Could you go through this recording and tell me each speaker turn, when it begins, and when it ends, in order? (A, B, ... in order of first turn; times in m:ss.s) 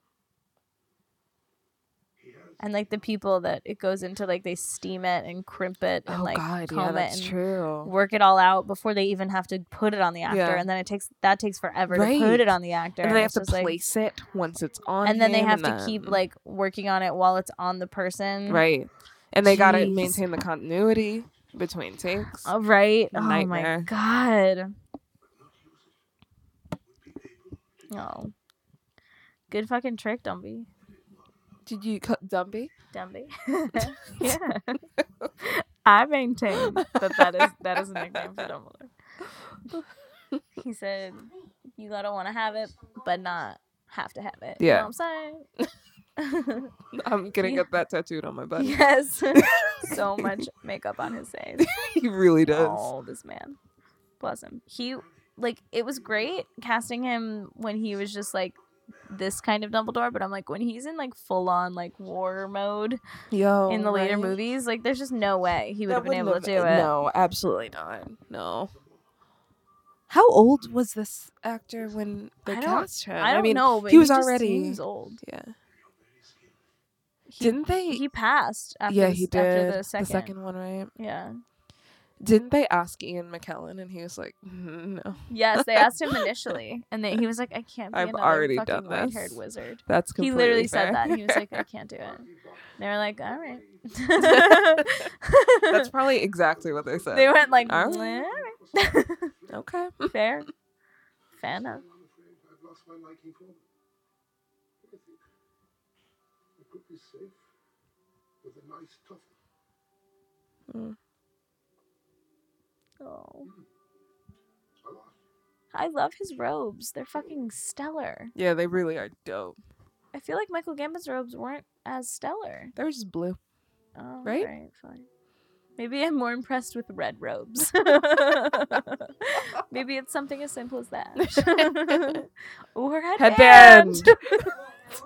0:02.2-0:02.5 A
0:02.6-0:13.8 B
0:06.1-0:07.9 C
0:10.3-0:10.7 C
0:11.9-0:16.2 C
0:15.0-0:18.6 B
0:18.5-0:22.5 C
0:19.4-0:20.2 B
0:22.4-0:24.8 B
0:23.1-0:23.9 C
0:25.4-0:26.0 A
0:26.9-0:27.8 A
0:27.9-0:28.3 B
0:29.5-0:30.7 B
0:31.7-0:32.7 C
0:32.9-0:34.8 B
0:33.8-0:34.3 C
0:35.4-0:38.9 B
0:36.5-0:38.4 C
0:40.6-0:45.5 B
0:44.6-0:44.9 C
0:46.2-0:46.7 B
0:46.9-0:48.8 C
0:47.4-0:47.7 B
0:48.6-0:51.8 B
0:49.3-0:50.4 C
0:51.6-0:52.9 C
0:52.4-0:53.6 B
0:54.2-1:03.0 B
1:03.3-1:04.4 C
1:03.7-1:06.9 B
1:05.9-1:08.7 C
1:08.7-1:09.0 A
1:10.1-1:15.5 C
1:12.5-1:15.2 B
1:15.8-1:16.6 A
1:17.3-1:20.3 B
1:17.4-1:18.0 C
1:18.9-1:20.9 C
1:21.0-1:21.4 B
1:22.2-1:26.5 C
1:25.3-1:35.9 B
1:27.9-1:31.6 C
1:32.0-1:34.1 A
1:34.2-1:35.0 C
1:35.7-1:38.3 C
1:36.4-1:39.6 A
1:37.1-1:39.3 B
1:39.5-1:40.1 C
1:40.1-1:40.5 B
1:41.4-1:41.8 B
1:41.5-1:43.6 A
1:44.8-1:45.2 A
1:46.6-1:47.4 A
1:48.4-1:49.3 A
1:50.7-1:51.0 C
1:53.0-1:53.5 B
1:54.8-1:55.2 A
1:55.7-1:58.3 B
1:58.4-1:59.6 C
2:00.1-2:02.8 B
2:02.8-2:03.4 C
2:04.0-2:05.1 B
2:04.2-2:04.5 C
2:05.8-2:14.6 B
2:11.2-2:12.2 C
2:13.2-2:14.5 C